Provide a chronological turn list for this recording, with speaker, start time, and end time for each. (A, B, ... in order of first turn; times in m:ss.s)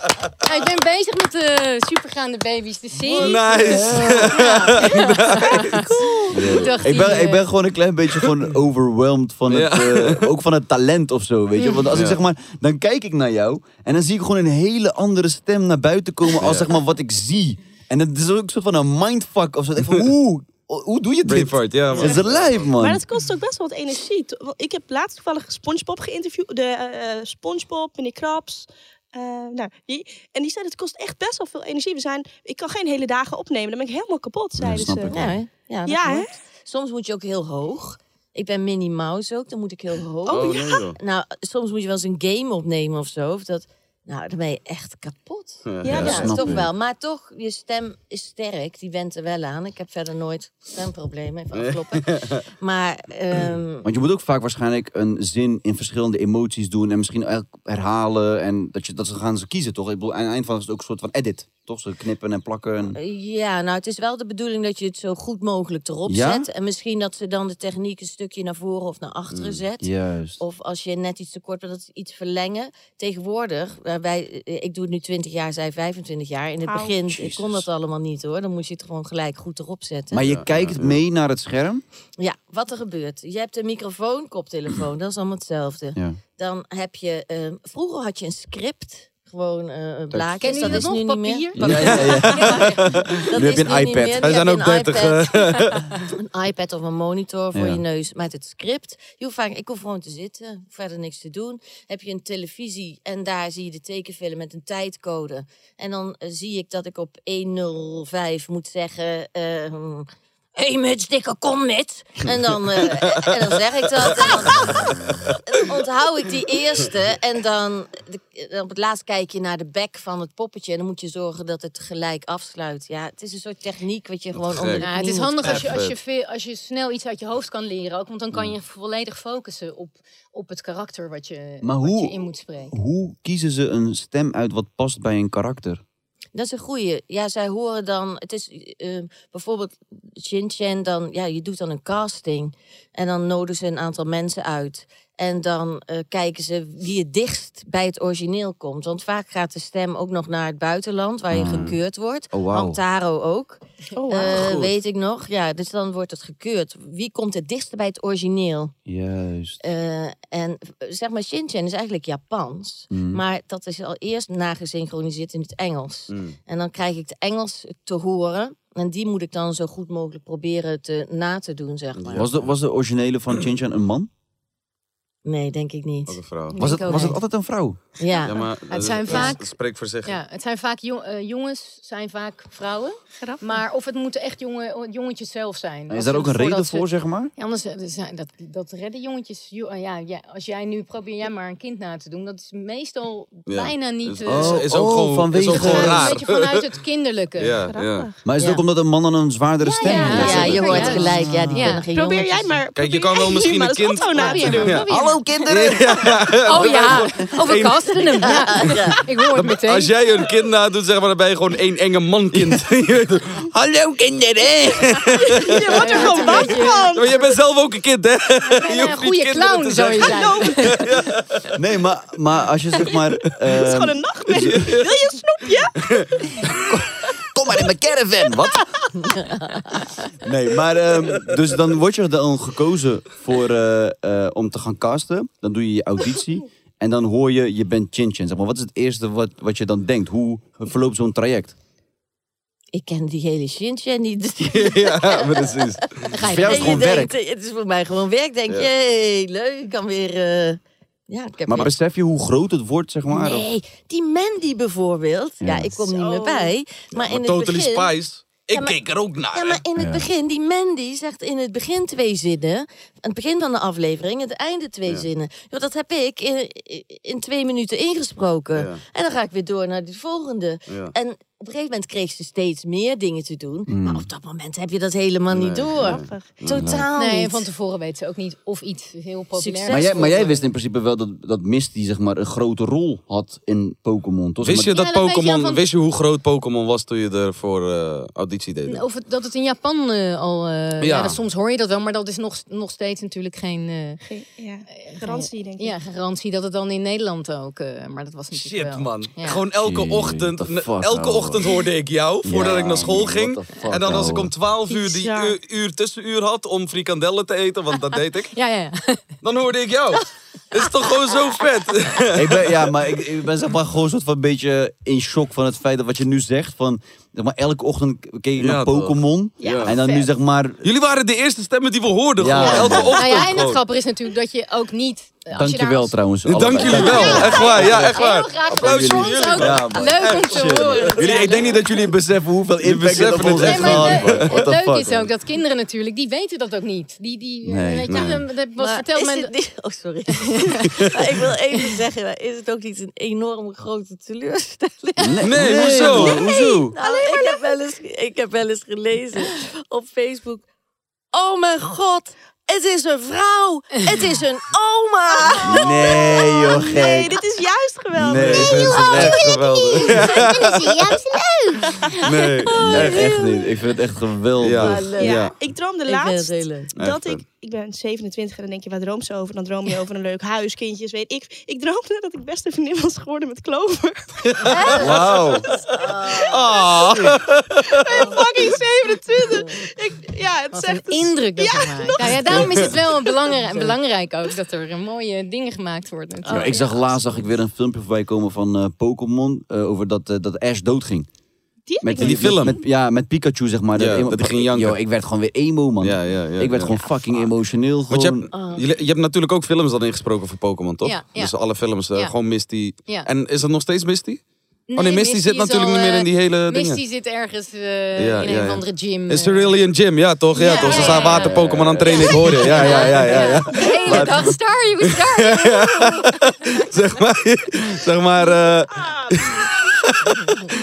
0:00.4-0:07.5 A
0:03.1-0:03.7 B
0:03.1-0:05.8 C
0:03.6-0:04.4 D
0:04.8-0:07.1 B
0:06.3-0:23.0 D
0:09.5-0:10.3 C
0:11.6-0:11.9 A
0:11.9-0:12.2 C
0:16.4-0:16.7 C
0:21.3-0:22.6 C
0:22.0-0:22.2 B
0:22.8-0:35.3 B
0:34.6-0:35.4 D
0:35.1-0:53.9 E
0:35.9-0:36.3 B
0:40.2-0:40.8 B
0:40.3-0:41.0 C
0:45.7-0:46.3 C
0:45.8-0:46.6 B
0:45.9-0:46.7 D
0:51.5-0:52.4 C
0:53.8-1:03.0 D
1:02.9-1:20.2 E
1:06.1-1:06.5 D
1:09.3-1:09.6 C
1:09.8-1:10.4 D
1:16.6-1:17.0 B
1:17.1-1:17.7 D
1:20.1-1:21.8 D
1:20.2-1:21.0 C
1:22.2-1:31.9 E
1:30.1-1:30.9 D
1:30.4-1:33.0 A
1:31.6-1:34.4 D
1:31.6-1:33.2 C
1:33.3-1:35.3 E
1:34.1-1:35.9 C
1:36.1-2:05.6 E
1:37.5-1:37.8 D
2:04.3-2:04.9 C
2:04.8-2:12.8 A
2:05.4-2:06.0 C
2:11.6-2:15.8 D
2:16.3-2:38.8 E
2:31.3-2:31.8 D
2:32.3-2:32.8 D
2:34.0-2:34.6 B
2:34.2-2:34.7 C
2:38.9-2:39.6 D
2:39.6-2:52.3 E
2:42.9-2:43.2 D
2:46.1-2:46.4 C
2:51.9-2:52.5 C
2:52.1-2:54.1 D
2:55.2-2:56.2 E
2:56.1-2:56.6 C
2:56.5-2:57.2 A
2:56.6-2:57.8 D
2:56.8-2:57.1 E
2:58.0-2:58.4 E
2:58.1-3:14.7 A
2:58.2-3:00.2 C
3:03.2-3:03.5 B
3:05.9-3:07.3 D
3:13.5-3:16.7 C
3:14.2-3:16.2 D
3:15.4-3:17.6 A
3:17.4-3:18.1 C
3:17.7-3:18.2 B
3:18.2-3:21.8 D
3:18.4-3:18.6 E
3:19.6-3:21.9 A
3:19.8-3:22.6 E
3:20.0-3:20.4 B
3:20.2-3:20.6 C
3:21.9-3:24.9 B
3:22.8-3:24.8 C
3:24.1-3:25.2 A
3:24.9-3:27.1 D
3:25.5-3:28.3 C
3:26.4-3:30.0 A
3:28.1-3:29.1 E
3:29.3-3:41.5 C
3:35.2-3:37.3 B
3:35.7-3:36.9 A
3:38.5-3:41.1 A
3:40.0-3:40.7 B
3:41.6-3:44.7 D
3:43.5-3:46.0 B
3:44.4-3:44.9 C
3:46.4-3:48.9 D
3:49.0-3:49.8 E
3:50.2-4:01.6 D
4:02.7-4:11.7 E
4:04.5-4:06.1 C
4:06.1-4:06.8 A
4:06.2-4:07.1 D
4:11.5-4:13.5 D
4:13.1-4:18.0 E
4:15.4-4:15.7 D
4:15.8-4:16.5 B
4:16.9-4:19.6 C
4:18.5-4:18.8 E
4:19.3-4:37.5 E
4:19.8-4:20.1 D
4:28.5-4:28.8 C
4:30.7-4:30.9 C
4:33.7-4:34.1 D
4:35.3-4:36.7 C
4:35.8-4:36.3 B
4:36.5-4:36.9 D
4:36.9-4:40.5 A
4:39.4-4:40.3 E
4:39.7-4:44.8 D
4:44.4-4:48.8 C
4:44.7-4:45.6 A
4:48.7-4:54.0 A
4:50.8-4:51.2 C
4:54.0-4:55.7 B
4:54.7-4:59.4 A
4:58.3-5:08.3 C
4:59.6-5:01.6 D
5:02.2-5:04.3 D
5:04.7-5:05.4 B
5:08.3-5:09.1 A
5:09.2-5:12.6 C
5:12.1-5:20.6 D
5:18.4-5:19.7 C
5:19.4-5:20.1 B
5:20.6-5:23.6 C
5:22.2-5:23.0 D
5:22.4-5:26.0 A
5:25.3-5:35.1 D
5:26.2-5:32.0 C
5:26.6-5:31.6 A
5:26.9-5:27.6 B
5:32.6-5:34.5 C
5:33.3-5:39.3 A
5:37.4-5:38.1 D
5:37.9-5:38.2 C
5:38.6-5:50.5 E
5:40.2-5:40.8 A
5:45.0-5:46.7 D
5:45.2-5:46.4 C
5:45.9-5:47.5 B
5:51.1-5:56.5 E
5:55.2-5:58.5 B
5:55.4-5:57.2 D
5:58.0-5:59.2 D
5:58.1-6:00.8 C
5:58.4-6:01.7 F
6:02.0-6:03.0 C
6:02.4-6:03.0 B
6:02.6-6:04.9 D
6:02.7-6:03.1 E
6:04.4-6:05.3 C
6:04.6-6:05.2 E
6:05.0-6:16.8 B
6:05.9-6:06.7 E
6:06.8-6:07.2 C
6:14.4-6:15.6 C
6:14.5-6:14.9 A
6:14.9-6:15.2 D
6:15.6-6:16.6 E
6:16.2-6:18.2 C
6:17.7-6:23.4 B
6:19.2-6:19.6 E
6:20.5-6:26.7 A
6:26.3-6:26.6 B
6:26.3-6:31.1 D
6:31.7-6:32.6 B
6:31.8-6:38.3 D
6:32.0-6:32.6 C
6:33.8-6:34.8 C
6:35.8-6:37.3 C
6:37.9-6:44.2 C
6:38.3-6:38.7 E
6:40.8-6:42.2 A
6:44.7-6:49.6 A
6:44.8-6:46.8 C
6:48.0-7:00.4 C
6:50.4-6:56.6 A
6:50.6-6:51.0 B
6:50.8-6:54.3 D
6:58.2-6:59.5 B